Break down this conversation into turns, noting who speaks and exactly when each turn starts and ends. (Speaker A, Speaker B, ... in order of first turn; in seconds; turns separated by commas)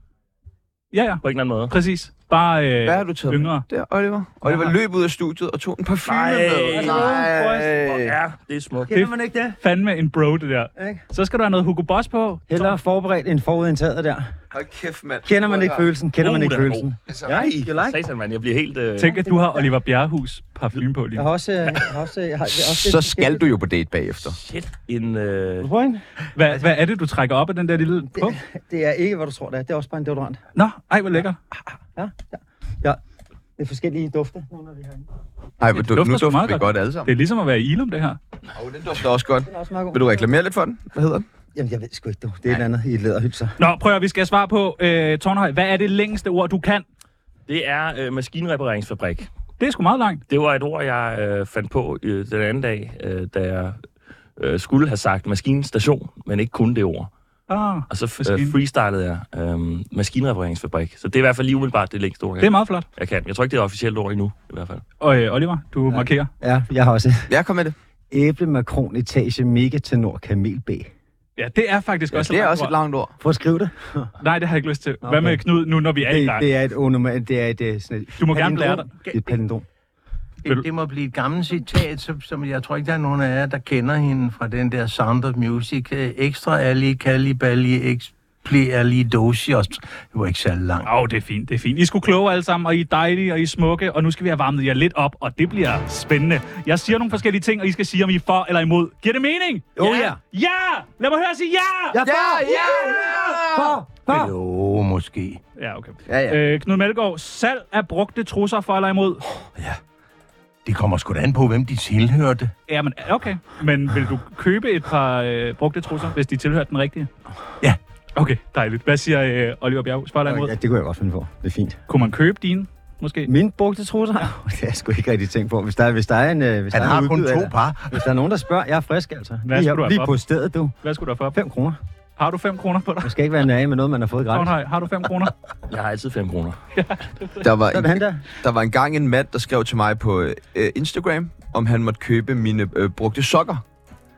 Speaker A: 0.9-3.7, Speaker B: 1.2-1.7, Speaker C: 2.8-8.2, Speaker A: 4.4-4.7, Speaker B: 6.0-8.9, Speaker D: 6.7-7.7, Speaker D: 8.9-9.6, Speaker A: 8.9-12.8, Speaker D: 10.8-11.0, Speaker D: 12.5-14.3, Speaker C: 14.5-15.9, Speaker D: 15.2-18.0, Speaker B: 16.2-19.2, Speaker C: 17.1-17.5, Speaker A: 19.0-21.3, Speaker D: 19.1-19.6, Speaker D: 21.1-23.4, Speaker C: 22.6-24.4, Speaker B: 24.3-25.7, Speaker D: 25.6-26.0, Speaker A: 26.4-28.4, Speaker D: 28.1-30.4, Speaker A: 30.6-31.4, Speaker D: 31.9-33.0, Speaker D: 33.6-35.1, Speaker C: 35.6-37.1, Speaker A: 35.7-38.2, Speaker C: 38.5-41.3, Speaker D: 39.5-40.2, Speaker D: 41.5-43.6, Speaker A: 43.6-46.9, Speaker B: 47.5-49.3, Speaker A: 49.6-50.2, Speaker B: 50.3-53.8, Speaker B: 54.4-57.1, Speaker A: 57.5-58.5, Speaker B: 57.9-64.8, Speaker A: 62.4-62.9, Speaker A: 65.0-66.3, Speaker D: 65.9-67.3, Speaker C: 67.3-67.8, Speaker D: 68.1-70.9, Speaker A: 71.4-72.8, Speaker C: 72.1-73.1, Speaker D: 73.2-74.1, Speaker A: 74.2-76.5, Speaker D: 75.0-75.4, Speaker D: 76.0-79.7, Speaker A: 78.2-78.9, Speaker E: 80.4-90.9, Speaker A: 90.8-102.0, Speaker D: 99.8-100.2, Speaker D: 101.9-104.3, Speaker C: 102.0-103.8, Speaker E: 104.1-105.4, Speaker A: 105.6-109.2, Speaker C: 106.1-106.5, Speaker E: 110.7-112.5, Speaker A: 112.7-117.1, Speaker A: 118.2-120.5, Speaker D: 120.3-121.8, Speaker A: 121.9-123.3, Speaker D: 123.3-130.8, Speaker E: 126.7-128.1, Speaker A: 129.4-130.2, Speaker A: 130.8-131.4, Speaker D: 131.3-131.8, Speaker A: 132.2-133.1, Speaker D: 133.0-134.6, Speaker A: 134.3-135.3, Speaker B: 135.7-136.6, Speaker A: 136.8-137.4, Speaker C: 137.4-143.6, Speaker D: 137.7-138.2